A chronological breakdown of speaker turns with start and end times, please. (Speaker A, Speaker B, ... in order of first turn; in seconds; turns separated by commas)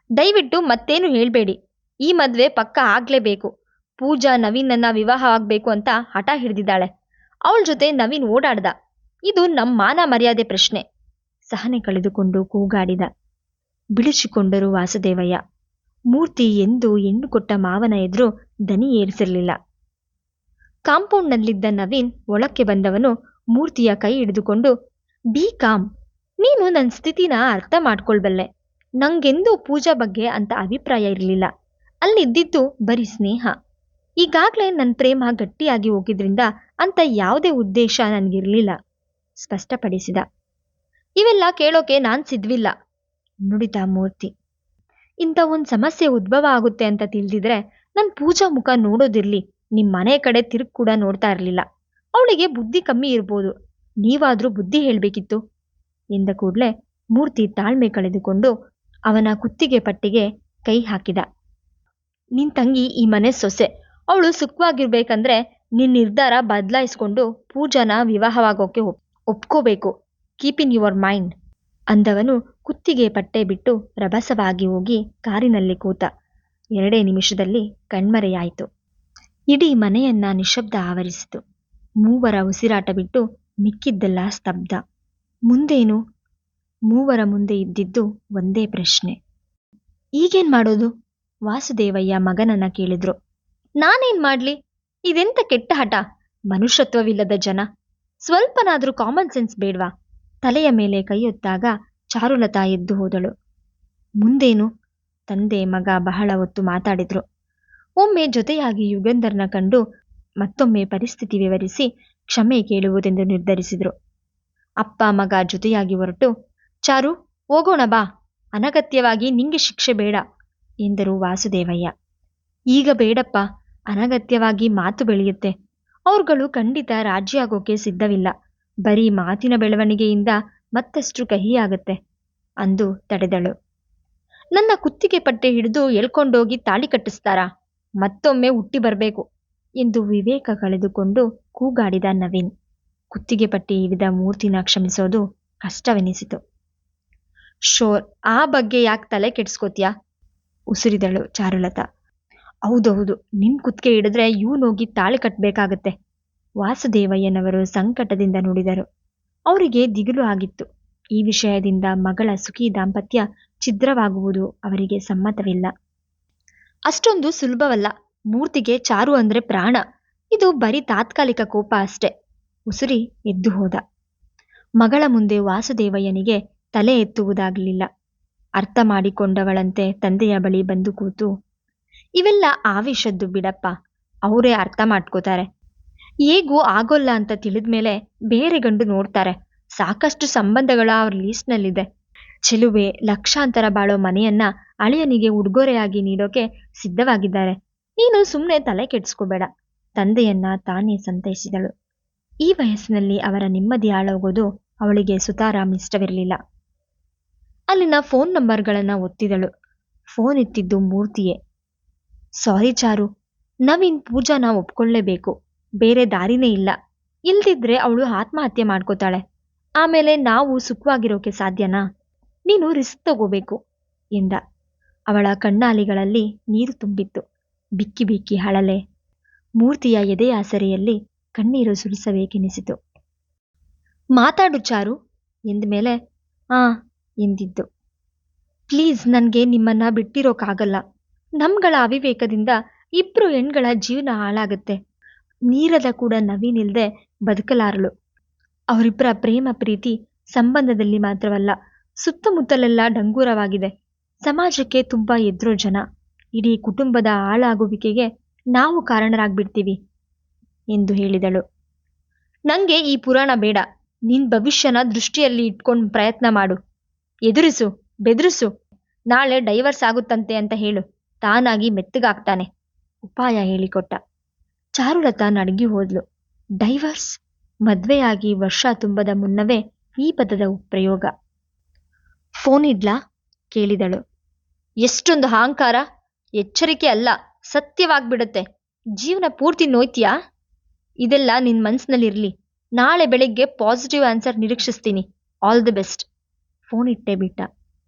Speaker A: 0.2-1.6, Speaker A: 2.1-6.9, Speaker A: 7.5-8.7, Speaker A: 9.3-10.8, Speaker A: 11.5-13.1, Speaker A: 14.0-15.4, Speaker A: 16.1-19.5, Speaker A: 20.9-24.7, Speaker A: 25.3-25.8, Speaker A: 26.4-28.5, Speaker A: 29.0-31.5, Speaker A: 32.0-33.5, Speaker A: 34.2-38.7, Speaker A: 39.4-40.2, Speaker A: 41.2-42.7, Speaker A: 43.5-44.3, Speaker A: 45.2-51.6, Speaker A: 52.2-53.5, Speaker A: 54.0-55.4, Speaker A: 56.1-58.5, Speaker A: 59.1-61.2, Speaker A: 62.4-71.3, Speaker A: 71.9-76.1, Speaker A: 76.8-78.7, Speaker A: 79.5-81.4, Speaker A: 82.0-84.8, Speaker A: 85.5-86.0, Speaker A: 86.9-89.1, Speaker A: 90.2-90.9, Speaker A: 91.5-93.1, Speaker A: 93.8-94.5, Speaker A: 95.1-97.6, Speaker A: 98.2-99.9, Speaker A: 100.4-103.3, Speaker A: 104.2-104.7, Speaker A: 105.3-107.2, Speaker A: 108.0-109.8, Speaker A: 110.4-113.9, Speaker A: 114.8-116.3, Speaker A: 116.9-118.0, Speaker A: 118.5-120.2, Speaker A: 120.8-121.9, Speaker A: 122.7-125.5, Speaker A: 126.1-128.3, Speaker A: 128.8-132.0, Speaker A: 132.6-133.5, Speaker A: 134.5-137.5, Speaker A: 138.0-139.2, Speaker A: 139.8-142.5, Speaker A: 143.1-146.4, Speaker A: 147.7-149.9, Speaker A: 150.7-151.8, Speaker A: 152.7-155.9, Speaker A: 156.6-158.8, Speaker A: 159.5-165.7, Speaker A: 166.9-169.8, Speaker A: 170.3-172.1, Speaker A: 172.7-173.8, Speaker A: 174.8-177.9, Speaker A: 178.6-181.3, Speaker A: 182.2-183.7, Speaker A: 184.3-185.4, Speaker A: 186.3-191.8, Speaker A: 192.5-201.7, Speaker A: 202.4-206.4, Speaker A: 207.7-209.5, Speaker A: 210.1-211.4, Speaker A: 212.4-213.1, Speaker A: 213.7-216.7, Speaker A: 217.3-219.2, Speaker A: 219.8-221.8, Speaker A: 222.5-223.6, Speaker A: 225.1-227.2, Speaker A: 227.8-228.8, Speaker A: 229.6-232.8, Speaker A: 234.2-234.9, Speaker A: 235.5-235.9, Speaker A: 237.2-237.6, Speaker A: 238.7-240.8, Speaker A: 241.4-244.8, Speaker A: 245.5-247.9, Speaker A: 248.7-253.7, Speaker A: 254.2-255.8, Speaker A: 256.4-259.8, Speaker A: 260.7-261.4, Speaker A: 262.5-266.6, Speaker A: 267.3-268.5, Speaker A: 269.1-272.5, Speaker A: 273.0-274.0, Speaker A: 274.8-276.0, Speaker A: 276.6-277.1, Speaker A: 277.7-281.1, Speaker A: 282.4-282.9, Speaker A: 283.5-284.0, Speaker A: 284.8-285.8, Speaker A: 286.4-288.4, Speaker A: 289.0-290.1, Speaker A: 291.0-296.1, Speaker A: 296.7-297.5